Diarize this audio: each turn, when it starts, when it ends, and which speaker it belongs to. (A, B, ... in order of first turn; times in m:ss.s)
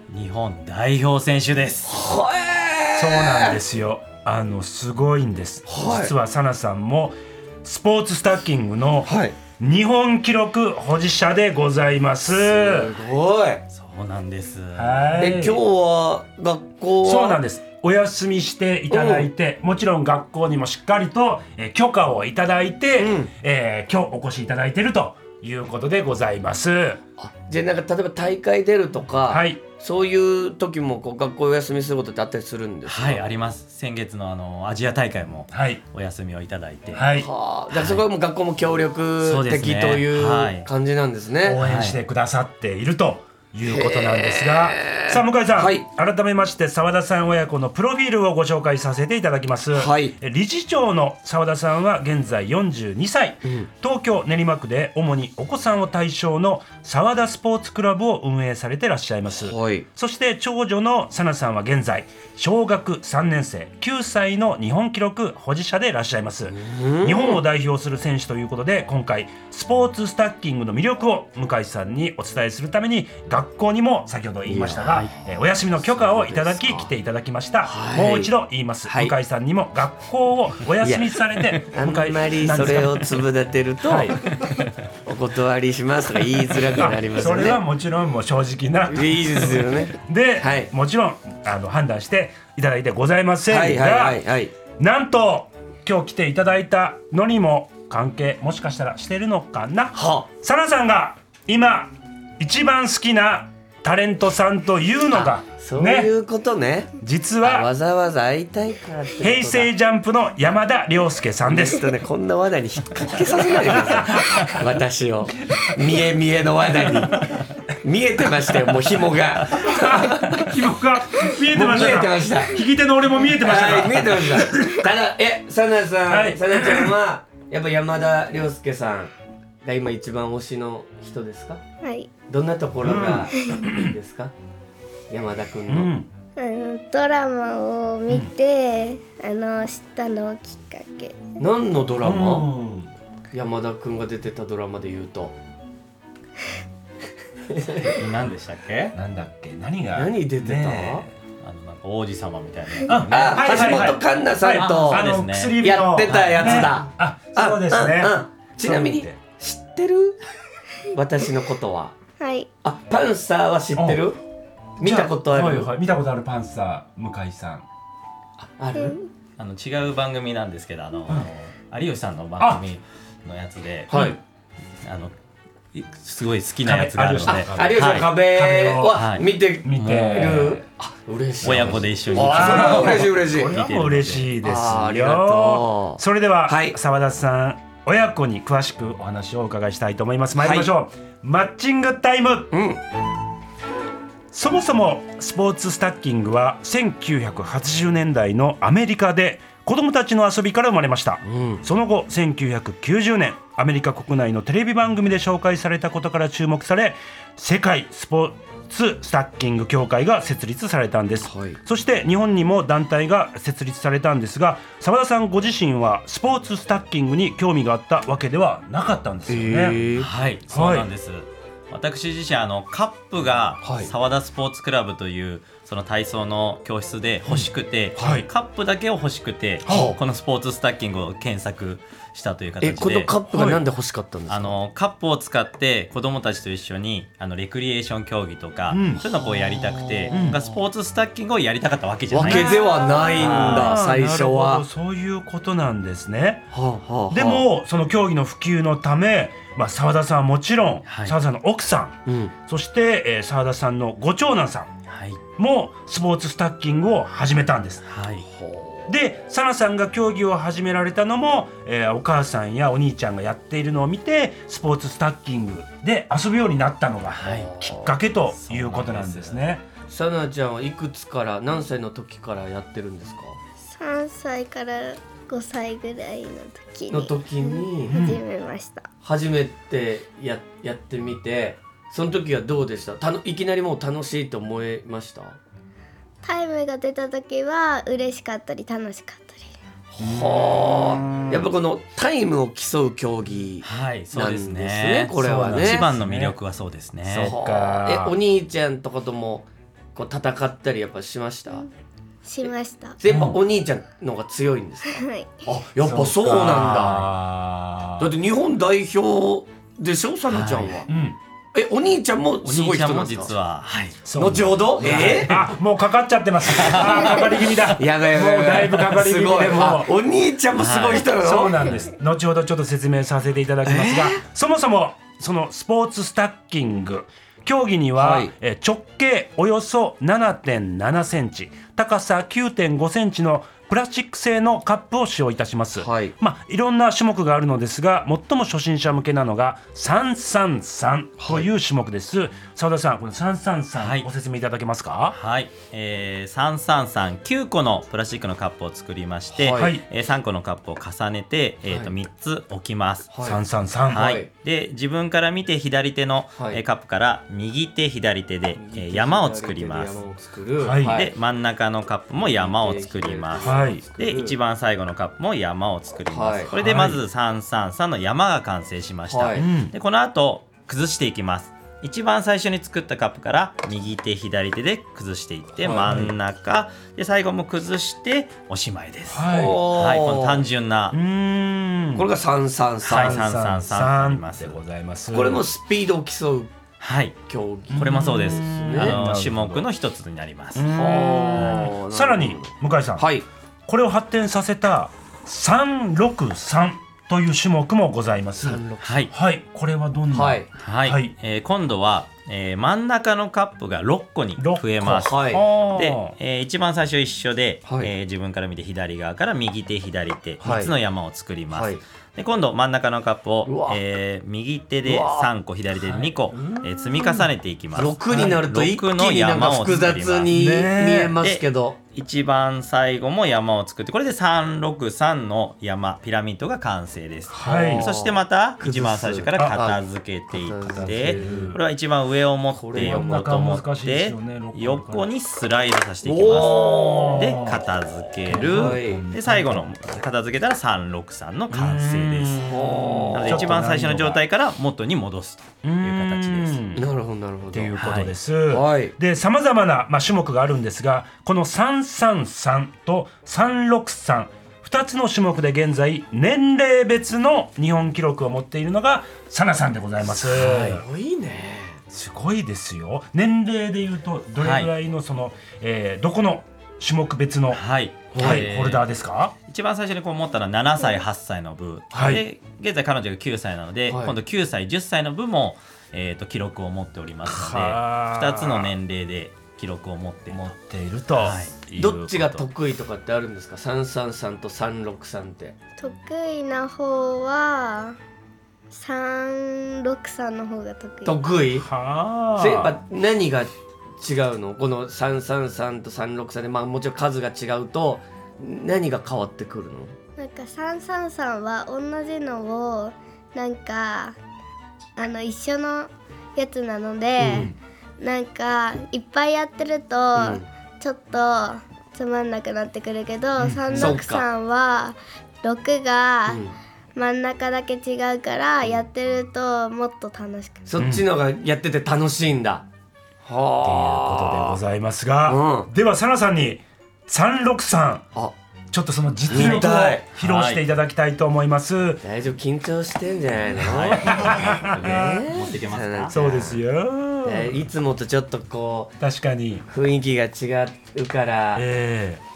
0:00.1-0:02.0 A
0:01.9-0:03.6 B
0:02.9-0:12.9 C
0:05.7-0:06.1 B
0:09.0-0:09.4 B
0:12.4-0:13.6 B
0:13.7-0:15.1 A
0:14.7-0:15.6 C
0:15.2-0:17.4 B
0:17.0-0:27.0 C
0:18.9-0:19.2 B
0:23.0-0:23.3 B
0:27.2-0:33.2 B
0:29.3-0:29.6 C
0:32.8-0:37.1 A
0:35.5-0:35.8 C
0:36.9-0:37.3 C
0:37.1-0:41.6 B
0:37.7-0:38.0 A
0:39.2-0:40.7 A
0:41.4-1:23.2 C
0:41.6-0:42.0 A
0:43.6-0:45.8 B
0:49.7-0:50.1 B
0:59.3-0:59.8 B
1:06.5-1:07.4 B
1:14.4-1:14.8 B
1:16.0-1:16.9 B
1:17.6-1:18.3 B
1:18.8-1:19.1 B
1:20.8-1:24.4 B
1:23.8-1:24.4 C
1:25.0-1:27.6 B
1:26.6-1:34.2 C
1:28.9-1:30.7 B
1:33.5-1:34.5 B
1:34.8-1:46.1 C
1:39.9-1:40.3 B
1:45.1-1:49.7 B
1:47.0-1:47.7 C
1:49.2-1:51.8 C
1:51.4-2:00.6 B
1:53.9-1:54.6 C
1:57.0-1:57.4 C
1:59.5-2:04.9 C
2:01.5-2:02.6 B
2:03.3-2:09.1 B
2:06.1-2:06.9 C
2:09.6-2:11.6 B
2:11.8-2:12.1 D
2:12.3-2:14.3 B
2:12.8-2:13.9 C
2:15.1-2:15.9 B
2:15.7-2:16.1 C
2:16.4-2:21.2 D
2:21.4-2:22.5 B
2:22.0-2:22.9 C
2:23.3-2:25.3 B
2:27.5-2:28.0 B
2:27.8-2:29.0 A
2:28.9-2:31.1 C
2:29.9-2:31.0 B
2:31.4-2:34.0 A
2:32.8-2:39.2 C
2:33.1-2:40.2 B
2:34.5-2:36.8 A
2:40.9-2:42.0 B
2:42.2-2:42.5 D
2:42.6-2:44.2 B
2:43.7-2:44.0 C
2:44.8-2:45.7 B
2:44.8-2:47.6 C
2:48.4-2:49.0 B
2:48.8-2:49.1 D
2:49.4-2:54.2 A
2:53.9-2:54.2 B
2:53.9-2:54.2 C
2:54.8-2:55.1 A
2:55.7-2:58.1 A
2:56.6-2:59.1 C
2:57.3-3:03.5 B
2:58.9-3:00.6 A
2:59.6-3:00.6 C
3:01.4-3:04.3 A
3:01.4-3:12.5 C
3:04.4-3:06.8 B
3:10.4-3:10.7 B
3:12.5-3:12.8 B
3:14.3-3:39.9 C
3:21.2-3:21.6 B
3:31.2-3:31.6 B
3:39.3-3:40.1 B
3:40.0-3:53.1 A
3:40.5-3:40.9 C
3:43.6-3:43.9 B
3:47.3-3:48.2 C
3:49.6-3:50.0 C
3:52.6-3:54.6 B
3:53.3-3:53.6 C
3:54.3-4:02.6 A
3:58.7-3:59.0 C
3:59.2-4:00.6 B
4:00.1-4:00.4 C
4:02.1-4:04.6 B
4:02.2-4:06.5 C
4:03.2-4:03.8 A
4:06.5-4:07.4 B
4:07.1-4:14.7 C
4:10.8-4:11.2 A
4:12.0-4:12.3 B
4:14.9-4:15.2 A
4:15.4-4:17.8 C
4:17.9-4:18.2 A
4:18.2-4:18.9 B
4:18.9-4:29.6 C
4:27.2-4:28.0 B
4:27.2-4:27.5 A
4:28.4-4:29.4 A
4:29.9-4:33.4 B
4:33.6-4:38.9 D
4:36.9-4:38.0 B
4:37.9-4:38.2 C
4:39.0-4:45.4 B
4:46.2-4:49.5 D
4:49.9-4:55.8 B
4:50.0-4:51.5 C
4:53.6-4:57.4 A
4:55.2-4:56.4 C
4:57.1-4:58.2 C
4:57.2-5:01.6 B
5:02.2-5:03.0 D
5:03.0-5:07.1 B
5:03.1-5:03.4 C
5:04.9-5:05.4 D
5:05.8-5:08.1 C
5:08.0-5:10.9 B
5:10.3-5:10.8 A
5:10.9-5:11.2 C
5:11.5-5:13.3 B
5:12.4-5:14.0 A
5:14.0-5:19.9 C
5:14.2-5:15.4 B
5:14.8-5:15.3 A
5:16.5-5:17.7 A
5:17.8-5:21.6 B
5:20.5-5:21.1 A
5:21.0-5:45.2 C
5:23.6-5:24.2 B
5:28.0-5:28.3 B
5:35.8-5:36.1 B
5:41.2-5:41.5 B
5:43.8-5:44.1 A
5:45.1-5:53.1 A
5:49.3-5:49.7 B
5:49.5-5:49.8 C
5:53.1-5:53.4 B
5:53.2-5:54.2 C
5:53.9-6:00.0 A
5:53.9-5:54.3 B
5:58.5-6:01.1 B
6:00.6-6:01.1 C
6:00.8-6:21.0 A
6:02.2-6:04.3 B
6:03.4-6:03.8 C
6:06.1-6:06.5 B
6:06.5-6:07.0 C
6:09.1-6:09.5 B
6:09.3-6:09.7 C
6:15.6-6:15.9 B
6:15.8-6:16.1 C
6:19.1-6:19.6 C
6:19.2-6:20.4 B
6:20.9-6:22.1 C
6:22.0-6:23.2 B
6:22.8-6:24.6 A
6:22.8-6:25.4 C
6:25.1-6:26.5 B
6:26.8-6:27.2 A
6:27.3-6:29.0 B
6:27.7-6:29.7 C
6:27.7-6:30.6 A
6:30.5-6:33.1 C
6:30.7-6:33.2 B
6:31.4-6:31.7 A
6:33.7-6:41.1 C
6:38.4-6:39.0 B
6:38.8-6:39.1 A
6:40.1-6:40.5 B
6:40.5-7:00.3 A
6:44.4-6:46.1 C
6:44.8-6:45.4 B
6:50.4-6:50.7 B
6:51.5-6:51.8 B
6:53.4-6:53.8 B
6:54.8-6:55.3 B
6:56.3-7:01.8 B
6:58.1-6:58.4 C
7:00.3-7:01.2 C
7:01.2-7:22.4 A
7:07.3-7:07.9 C
7:07.4-7:09.8 B
7:09.4-7:09.6 C
7:10.3-7:11.5 B
7:10.7-7:11.6 C
7:12.5-7:13.3 B
7:12.7-7:15.1 C
7:16.0-7:17.4 B
7:16.3-7:17.6 C
7:18.2-7:19.7 C
7:18.3-7:19.0 B
7:21.5-7:24.2 C
7:22.4-7:23.5 B
7:23.1-7:26.6 A
7:25.6-7:26.9 C
7:26.7-7:27.7 B
7:27.5-7:40.8 C
7:27.7-7:28.1 A
7:28.5-7:28.9 B
7:40.2-7:40.8 A
7:40.5-7:41.8 B
7:41.9-7:47.6 C
7:44.4-7:44.7 A
7:47.5-7:48.8 A
7:48.1-7:48.4 B
7:48.1-7:49.3 C
7:49.5-8:00.5 A
7:51.9-7:52.2 C
7:53.9-7:54.1 B
7:57.2-7:58.7 C
8:00.3-8:02.4 C
8:01.2-8:01.6 A
8:01.8-8:05.6 B
8:05.8-8:08.0 D
8:08.7-8:11.2 D
8:11.0-8:11.7 B
8:11.6-8:12.8 C
8:12.4-8:19.9 B
8:20.2-8:24.2 D
8:25.0-8:36.4 D
8:27.2-8:27.5 B
8:30.2-8:30.4 B
8:33.4-8:34.0 C
8:33.7-8:34.2 B
8:36.3-8:36.5 B
8:36.9-8:40.7 D
8:40.7-8:42.6 B
8:40.8-8:41.1 C
8:43.2-8:44.6 B
8:43.6-8:48.1 C
8:45.2-8:45.7 B
8:48.7-8:52.0 C
8:49.3-8:50.0 B
8:49.3-8:50.6 A
8:52.0-8:56.6 B
8:53.6-8:56.2 A
8:53.7-8:55.3 C
8:56.1-8:57.6 C
8:57.2-8:59.0 B
8:59.0-8:59.6 C
8:59.7-9:01.6 B
9:01.5-9:02.2 C